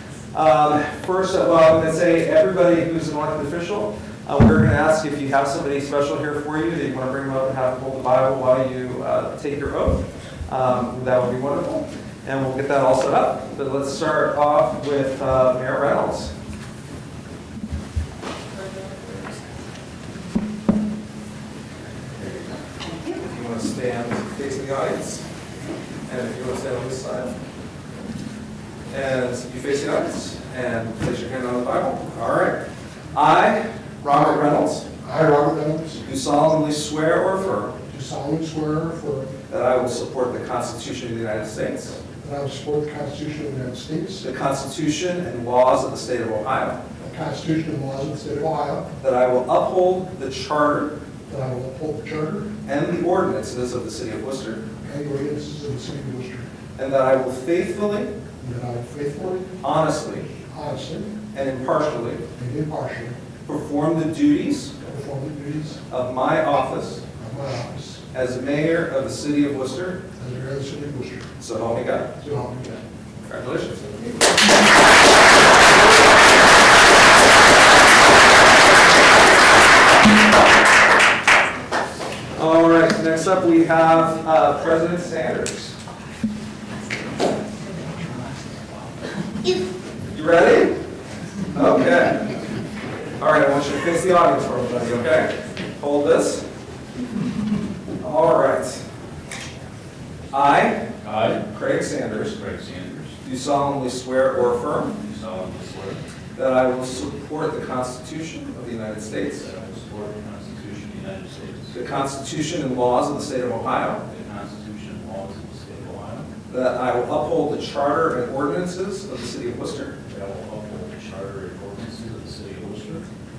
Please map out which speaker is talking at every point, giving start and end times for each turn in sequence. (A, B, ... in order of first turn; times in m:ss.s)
0:00.3-0:16.3 A
0:23.1-0:25.3 A
0:26.1-0:27.4 A
0:28.9-0:34.9 A
0:35.0-0:36.0 B
0:36.0-0:37.8 A
0:37.9-0:39.3 B
0:39.5-0:42.0 A
0:42.2-0:44.2 B
0:44.2-0:46.8 A
0:47.0-0:48.9 B
0:49.0-0:51.0 A
0:51.3-0:52.5 B
0:52.6-0:54.6 A
0:54.8-0:56.5 B
0:56.8-0:58.1 A
0:58.4-0:59.5 B
0:59.6-1:00.3 A
1:00.3-1:01.2 B
1:01.3-1:02.2 A
1:02.4-1:03.2 B
1:03.4-1:04.8 A
1:04.8-1:05.8 B
1:05.9-1:07.0 A
1:07.2-1:08.0 B
1:08.1-1:10.0 A
1:10.2-1:11.3 B
1:11.4-1:12.1 A
1:12.2-1:12.8 B
1:13.2-1:14.3 A
1:22.3-1:25.8 A
1:30.1-1:30.8 A
1:31.5-1:32.2 A
1:33.2-1:36.4 A
1:38.0-1:38.8 A
1:40.3-1:42.4 A
1:41.0-1:41.4 C
1:42.3-1:43.2 C
1:43.2-1:45.0 A
1:45.0-1:46.0 C
1:46.4-1:49.5 A
1:49.3-1:51.8 C
1:51.7-1:54.0 A
1:54.0-1:56.3 C
1:56.5-2:00.0 A
2:00.1-2:03.1 C